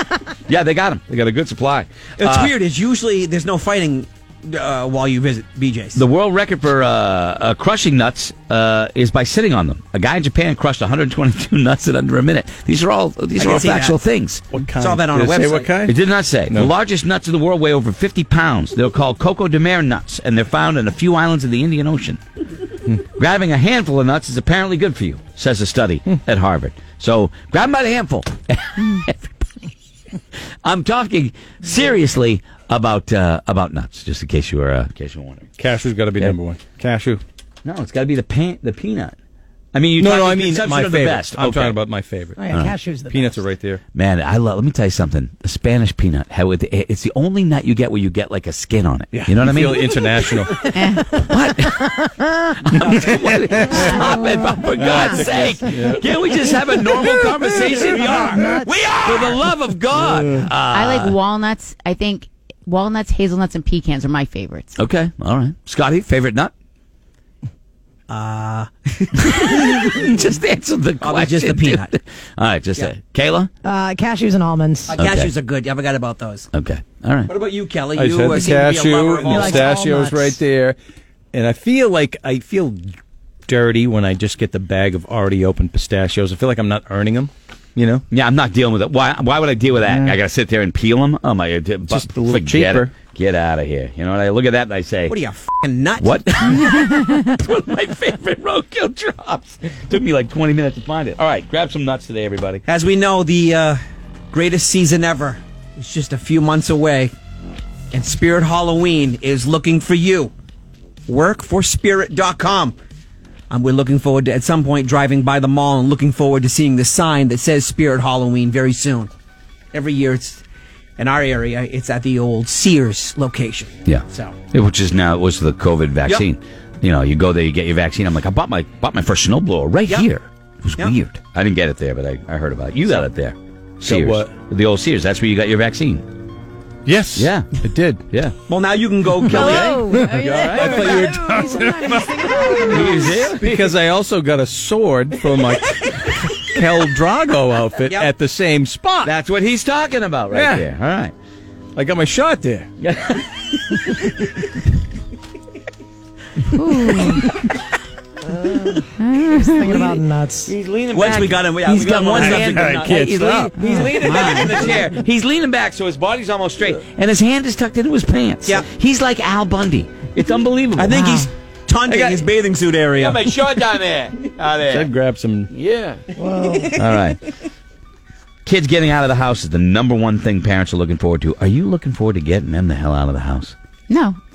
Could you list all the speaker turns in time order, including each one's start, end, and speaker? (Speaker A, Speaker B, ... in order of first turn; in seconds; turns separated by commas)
Speaker A: 0.5-2.5, Speaker B: 2.2-6.0, Speaker A: 6.0-14.4, Speaker B: 13.4-13.9, Speaker C: 14.5-15.9, Speaker B: 14.8-15.9, Speaker A: 15.8-22.2, Speaker A: 23.2-29.3, Speaker A: 30.6-35.5, Speaker C: 35.6-37.2, Speaker A: 37.6-39.1, Speaker A: 39.7-41.8, Speaker C: 40.0-42.4, Speaker D: 42.4-43.4, Speaker C: 43.1-43.8, Speaker A: 43.9-49.9, Speaker C: 49.1-50.7, Speaker E: 50.7-51.2, Speaker A: 51.1-61.2, Speaker C: 54.8-56.1, Speaker C: 57.8-58.3, Speaker D: 58.3-58.8, Speaker E: 60.7-64.8, Speaker A: 64.8-66.5, Speaker B: 68.1-69.9, Speaker A: 69.2-73.5, Speaker B: 71.0-71.9, Speaker D: 73.6-75.0, Speaker B: 74.9-76.5, Speaker A: 75.0-75.3, Speaker A: 76.5-77.3, Speaker B: 77.3-79.7, Speaker C: 77.9-80.8, Speaker D: 79.3-80.4, Speaker C: 81.3-88.0, Speaker A: 88.1-95.2, Speaker C: 89.9-90.2, Speaker C: 91.9-92.9, Speaker B: 95.1-96.6, Speaker A: 96.0-102.6, Speaker B: 102.7-103.8, Speaker B: 104.3-107.1, Speaker B: 107.9-110.3, Speaker B: 111.1-112.8, Speaker B: 113.5-119.1, Speaker B: 119.7-120.4, Speaker B: 121.0-124.4, Speaker A: 123.8-136.1, Speaker C: 133.8-134.3, Speaker C: 136.8-138.1, Speaker A: 137.2-137.5, Speaker A: 138.1-138.3, Speaker B: 138.5-140.0, Speaker E: 139.2-141.6, Speaker A: 139.4-140.9, Speaker C: 139.4-149.1, Speaker D: 141.0-143.0, Speaker E: 142.2-142.6, Speaker A: 142.6-143.6, Speaker B: 147.8-148.1, Speaker A: 149.0-151.1, Speaker C: 150.3-150.6, Speaker C: 151.8-152.7, Speaker A: 152.8-154.3, Speaker E: 156.5-157.3, Speaker E: 159.0-160.0, Speaker D: 159.4-160.5, Speaker A: 160.5-171.1, Speaker B: 160.9-162.6, Speaker C: 161.7-163.6, Speaker D: 163.7-164.1, Speaker E: 163.8-164.8, Speaker B: 170.8-173.3, Speaker E: 170.9-171.3, Speaker A: 171.8-172.3, Speaker A: 173.0-174.9, Speaker C: 174.6-175.5, Speaker A: 175.5-176.1, Speaker C: 176.2-176.6, Speaker A: 176.8-177.2, Speaker A: 178.4-183.6, Speaker E: 183.9-184.2